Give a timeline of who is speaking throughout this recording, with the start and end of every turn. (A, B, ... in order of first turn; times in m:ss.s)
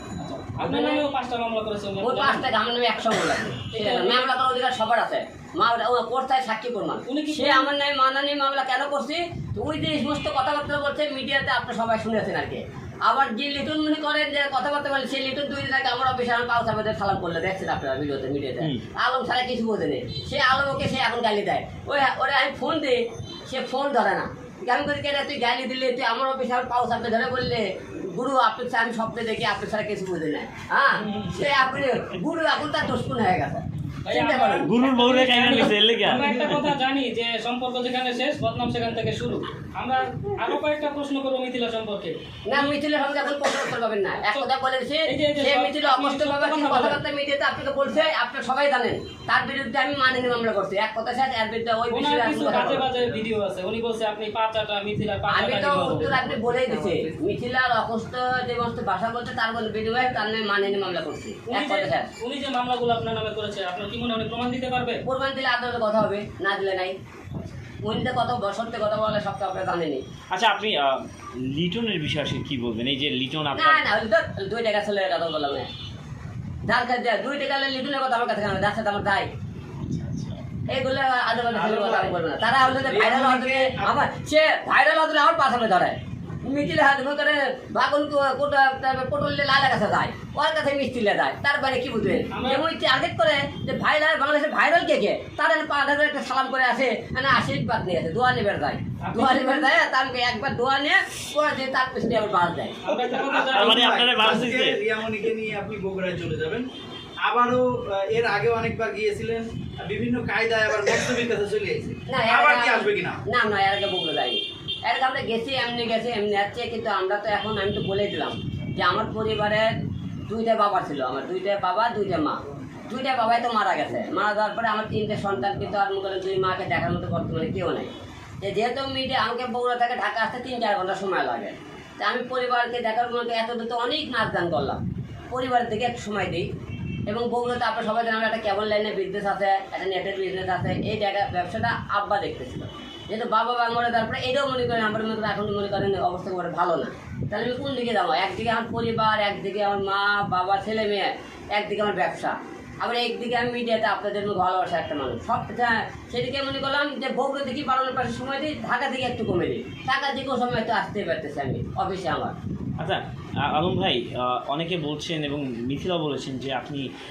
0:00.2-0:02.4 A
0:00.6-0:01.1 B
0:02.0-0:34.9 B
0:03.7-0:04.3 A
0:07.1-0:07.7 A
0:31.0-0:31.5 A
0:34.0-0:42.7 A
0:34.6-0:36.7 C
0:42.5-0:52.9 B
0:44.2-0:44.5 A
0:45.1-0:47.0 A
0:51.9-0:56.4 A
0:55.3-1:02.1 B
1:01.5-1:05.0 A
1:05.1-1:07.0 B
1:07.8-1:10.0 B
1:10.3-1:13.8 C
1:13.5-1:15.7 B
1:16.7-1:19.3 B
1:19.9-1:20.4 C
1:20.7-1:42.8 B
1:21.5-1:22.1 D
1:22.7-1:24.0 D
1:32.3-1:32.6 A
1:39.0-1:39.7 A
1:42.8-1:43.9 A
1:42.9-1:46.7 D
1:43.5-1:44.8 C
1:47.2-1:53.2 D
1:52.1-1:59.7 B
2:00.3-2:07.9 B
2:08.4-2:16.5 B
2:17.1-2:42.4 B
2:42.8-2:46.9 C